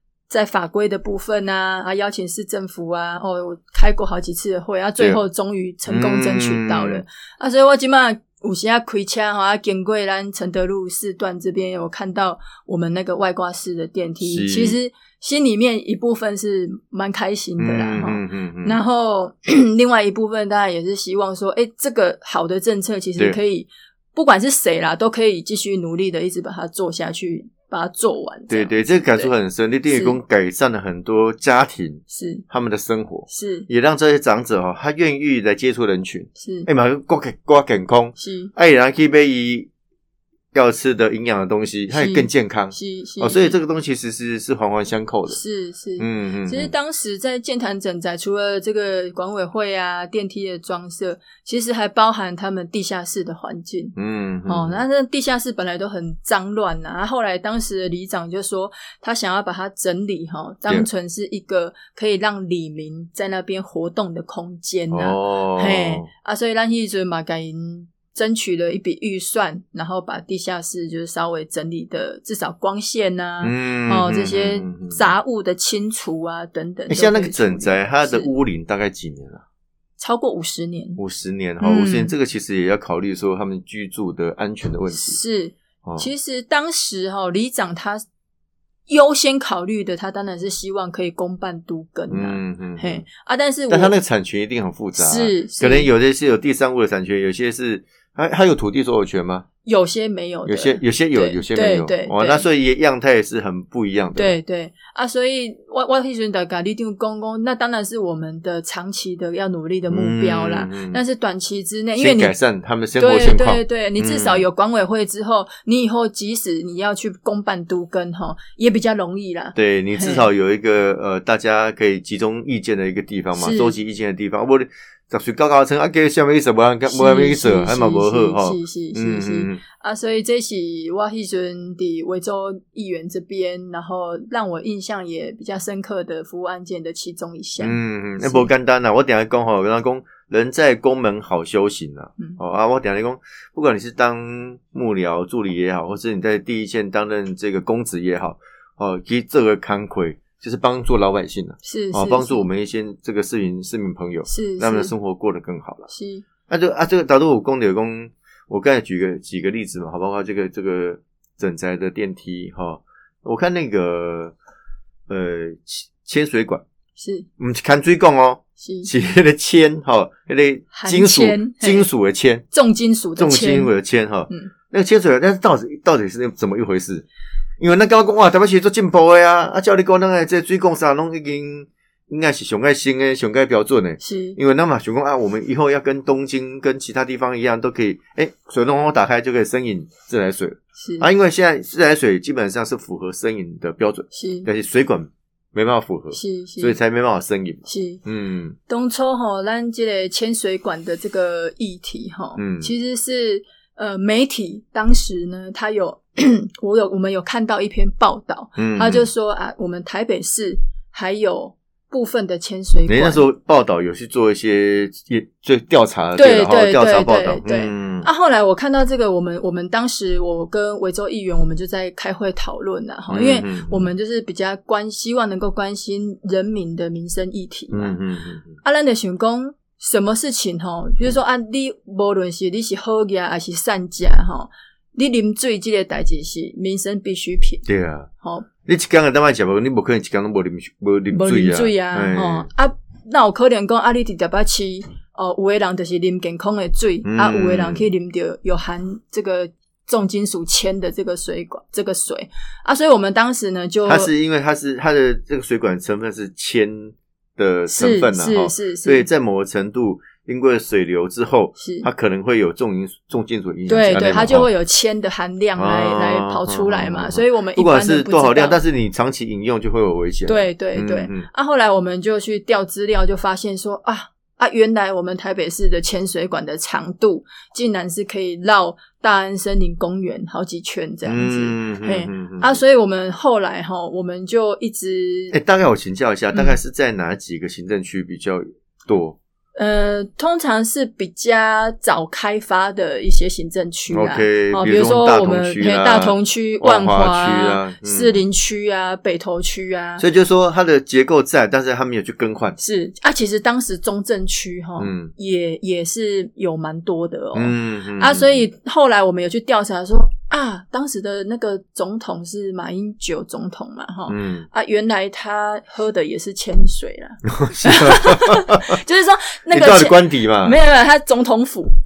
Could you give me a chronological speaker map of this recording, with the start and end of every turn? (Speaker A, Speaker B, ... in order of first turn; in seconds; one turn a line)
Speaker A: 0.3-29.3
Speaker B: 5.9-7.0
Speaker B: 14.2-14.8
Speaker B: 17.6-18.8
Speaker B: 28.5-39.7
Speaker A: 29.9-30.2
Speaker A: 32.1-32.4
Speaker A: 33.3-33.7
Speaker A: 36.4-36.7
Speaker A: 38.2-38.5
Speaker B: 40.5-45.4
Speaker A: 41.9-43.6
Speaker A: 45.3-53.9
Speaker B: 46.0-46.7
Speaker B: 54.0-54.8
Speaker A: 54.5-78.3
Speaker B: 64.9-66.1
Speaker B: 73.4-75.1
Speaker B: 76.9-79.4
Speaker A: 80.0-81.0
Speaker B: 81.0-85.2
Speaker A: 81.6-82.1
Speaker A: 84.9-88.0
Speaker B: 85.8-86.1
Speaker A: 88.9-93.9
Speaker B: 92.1-93.0
Speaker B: 93.7-99.5
Speaker A: 95.0-95.9
Speaker A: 99.6-102.4
Speaker B: 100.5-104.3
Speaker A: 104.2-112.3
Speaker B: 109.9-111.0
Speaker B: 112.0-114.4
Speaker A: 113.0-120.3
Speaker B: 119.5-129.6
Speaker A: 123.3-123.8
Speaker A: 126.9-138.5
Speaker B: 137.6-155.9
Speaker A: 151.6-152.5
Speaker A: 154.3-154.9
Speaker A: 155.9-156.2
Speaker B: 156.5-164.3
Speaker B: 165.1-166.6
Speaker A: 167.0-167.3
Speaker B: 167.4-172.4
Speaker A: 168.6-168.9
Speaker A: 170.7-171.9
Speaker A: 172.5-173.7
Speaker B: 173.2-177.1
Speaker B: 177.6-198.6
Speaker A: 184.0-184.4
Speaker A: 190.8-191.1
Speaker A: 194.1-194.5
Speaker A: 196.1-196.8
Speaker A: 197.6-198.0
Speaker A: 198.7-213.2
Speaker B: 202.4-202.7
Speaker B: 208.6-209.1
Speaker B: 212.9-218.1
Speaker A: 216.2-228.0
Speaker B: 223.1-223.9
Speaker B: 227.7-228.5
Speaker A: 228.6-237.6
Speaker B: 237.7-238.1
Speaker A: 238.2-238.5
Speaker B: 238.6-242.5
Speaker A: 241.1-254.1
Speaker B: 247.0-247.9
Speaker B: 253.8-264.5
Speaker A: 257.7-259.1
Speaker A: 261.6-261.9
Speaker A: 263.7-268.6
Speaker B: 265.6-271.3
Speaker A: 270.3-285.3
Speaker B: 281.1-282.6
Speaker B: 285.3-289.2
Speaker A: 289.6-300.0
Speaker B: 293.9-298.2
Speaker B: 300.0-302.6
Speaker A: 302.6-321.7
Speaker B: 304.8-305.1
Speaker B: 307.3-308.4
Speaker B: 314.1-314.5
Speaker B: 317.2-318.8
Speaker B: 319.5-320.6